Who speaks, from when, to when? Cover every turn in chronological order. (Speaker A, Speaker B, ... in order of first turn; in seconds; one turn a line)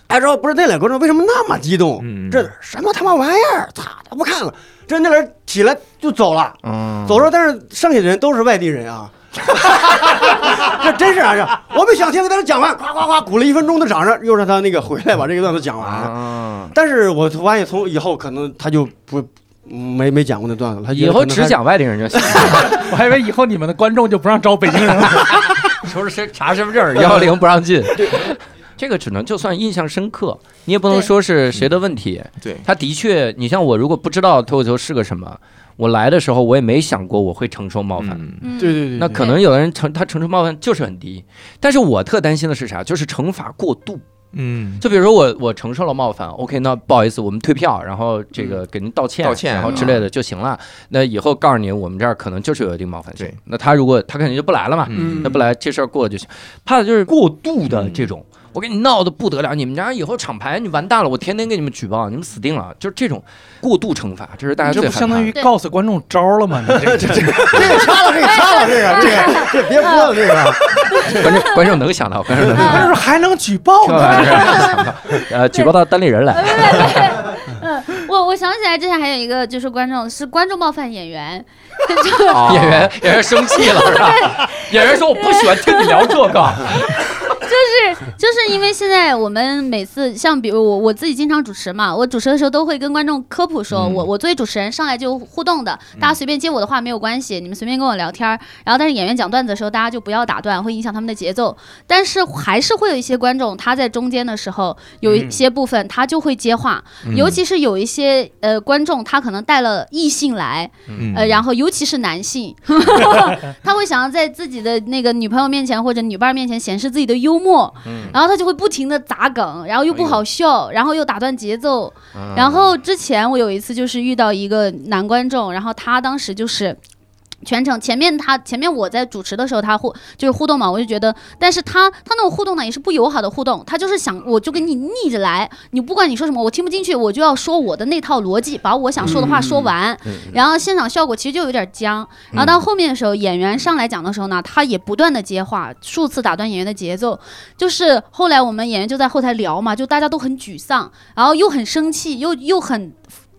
Speaker A: 0.1-21.6
Speaker B: 2.0-2.5
Speaker C: 6.6-7.3
Speaker C: 15.8-16.7
Speaker C: 20.9-22.8
Speaker D: 22.4-25.5
Speaker C: 25.8-38.3
Speaker B: 38.0-38.5
Speaker E: 38.4-39.4
Speaker A: 38.6-39.2
Speaker C: 38.9-44.0
Speaker B: 44.3-44.8
Speaker C: 44.8-65.3
Speaker B: 49.2-50.0
Speaker B: 54.9-55.4
Speaker B: 57.7-58.1
Speaker D: 64.6-67.8
Speaker A: 66.8-70.6
Speaker E: 68.2-70.2
Speaker E: 70.9-71.6
Speaker C: 71.0-72.9
Speaker E: 72.5-73.0
Speaker D: 72.6-74.4
Speaker C: 73.8-77.0
Speaker E: 74.0-74.9
Speaker E: 76.3-126.8
Speaker C: 82.3-86.8
Speaker B: 82.3-82.8
Speaker C: 93.7-94.0
Speaker B: 107.0-107.4
Speaker B: 110.9-111.4
Speaker C: 117.8-118.2
Speaker C: 119.9-120.2
Speaker C: 122.1-122.7
Speaker E: 127.4-153.0
Speaker C: 139.0-140.4
Speaker C: 142.3-142.7